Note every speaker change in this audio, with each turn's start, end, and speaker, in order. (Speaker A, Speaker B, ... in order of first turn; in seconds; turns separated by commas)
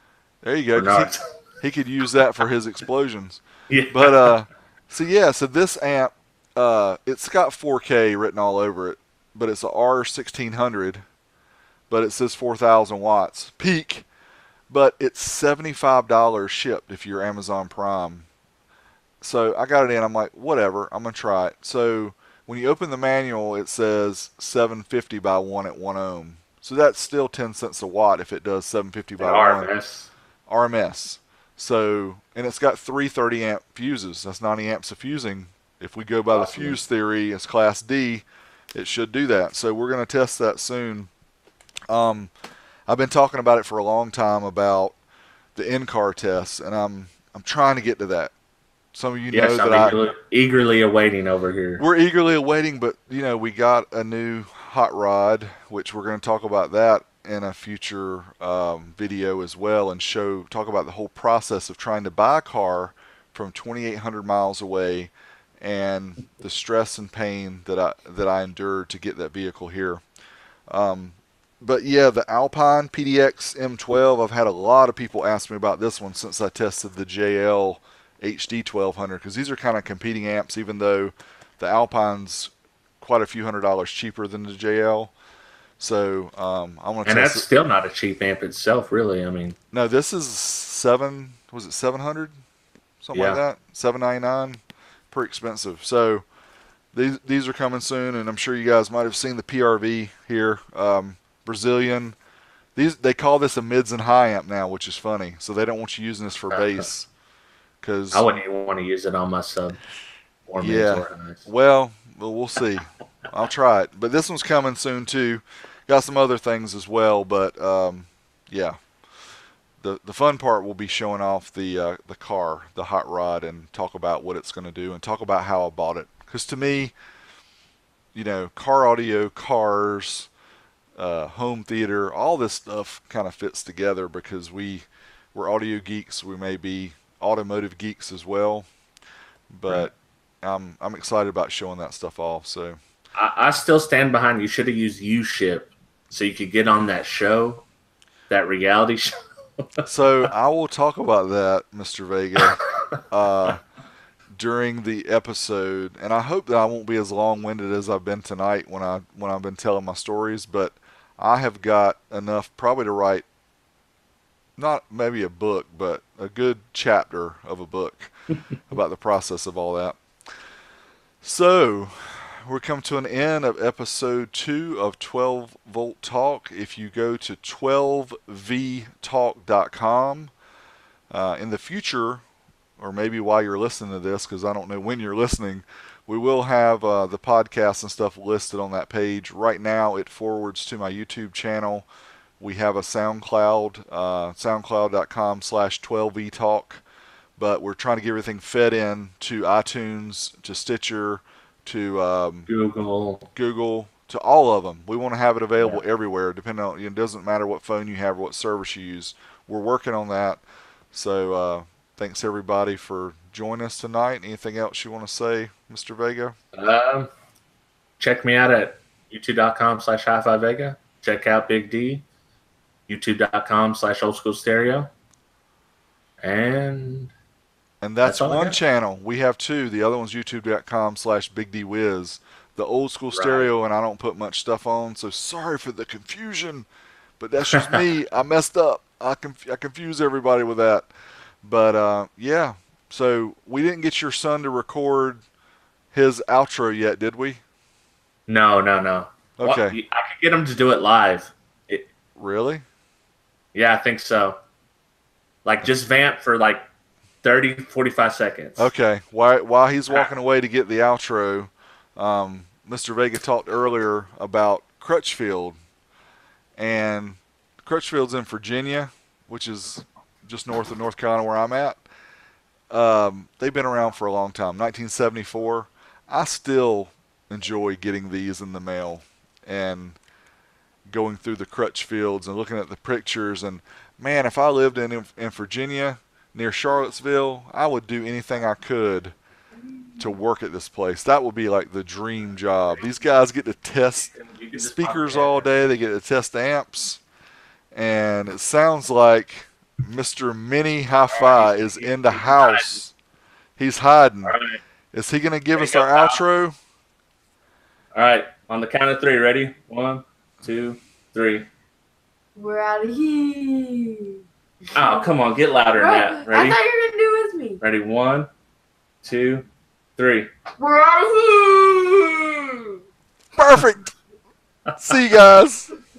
Speaker A: 0.4-11.0, Speaker B: 0.7-1.2, Speaker B: 3.7-4.3, Speaker A: 11.9-14.1, Speaker A: 14.7-18.3, Speaker A: 19.2-29.7, Speaker B: 29.2-30.1, Speaker A: 30.5-41.1, Speaker B: 36.3-36.8, Speaker A: 41.9-42.3, Speaker A: 42.9-45.0, Speaker A: 45.5-48.3, Speaker A: 48.9-50.0, Speaker B: 49.3-51.8, Speaker A: 51.8-70.0, Speaker A: 70.7-85.1, Speaker A: 85.8-87.5, Speaker B: 87.0-89.5, Speaker A: 89.7-92.3, Speaker A: 93.0-94.6, Speaker B: 93.1-93.4, Speaker A: 95.1-96.2, Speaker A: 96.9-102.2, Speaker A: 102.8-107.1, Speaker B: 106.5-106.8, Speaker A: 107.8-108.2, Speaker B: 108.1-109.8, Speaker B: 110.5-111.5, Speaker A: 110.6-118.8, Speaker A: 119.8-126.9, Speaker A: 128.1-130.3, Speaker A: 131.0-138.7, Speaker A: 139.5-142.8, Speaker B: 143.2-147.6, Speaker B: 148.3-149.7, Speaker A: 149.8-153.6, Speaker A: 154.3-163.2, Speaker A: 164.6-168.1, Speaker A: 168.7-170.0, Speaker A: 171.2-180.3, Speaker A: 181.1-182.2, Speaker A: 182.8-191.8, Speaker A: 192.4-196.8, Speaker A: 197.4-202.5, Speaker B: 202.5-203.3, Speaker A: 203.3-210.4, Speaker B: 205.6-205.8, Speaker A: 210.9-216.3, Speaker B: 216.5-217.1, Speaker B: 218.0-222.0, Speaker B: 222.9-224.9, Speaker B: 226.2-227.1, Speaker A: 227.8-236.7, Speaker B: 228.0-228.6, Speaker B: 233.1-233.5, Speaker A: 237.2-240.9, Speaker B: 237.6-237.8, Speaker A: 241.4-245.2, Speaker A: 245.9-247.4, Speaker B: 248.3-251.9, Speaker A: 249.4-249.8, Speaker A: 252.2-252.6, Speaker B: 253.5-254.4, Speaker B: 255.4-256.6, Speaker B: 257.2-258.7, Speaker A: 258.6-265.6, Speaker A: 266.6-271.8, Speaker A: 272.7-280.0, Speaker A: 280.9-289.1, Speaker A: 290.0-297.0, Speaker B: 294.1-295.5, Speaker A: 297.7-302.9, Speaker B: 301.1-302.8, Speaker A: 303.6-304.4, Speaker B: 304.2-304.6, Speaker A: 304.9-306.5, Speaker B: 305.5-306.2, Speaker B: 307.9-311.5, Speaker C: 312.4-317.6, Speaker B: 314.7-316.6, Speaker B: 317.6-318.3, Speaker B: 319.0-319.4, Speaker B: 320.0-320.3, Speaker C: 320.6-322.8, Speaker A: 323.3-323.9, Speaker A: 324.8-325.7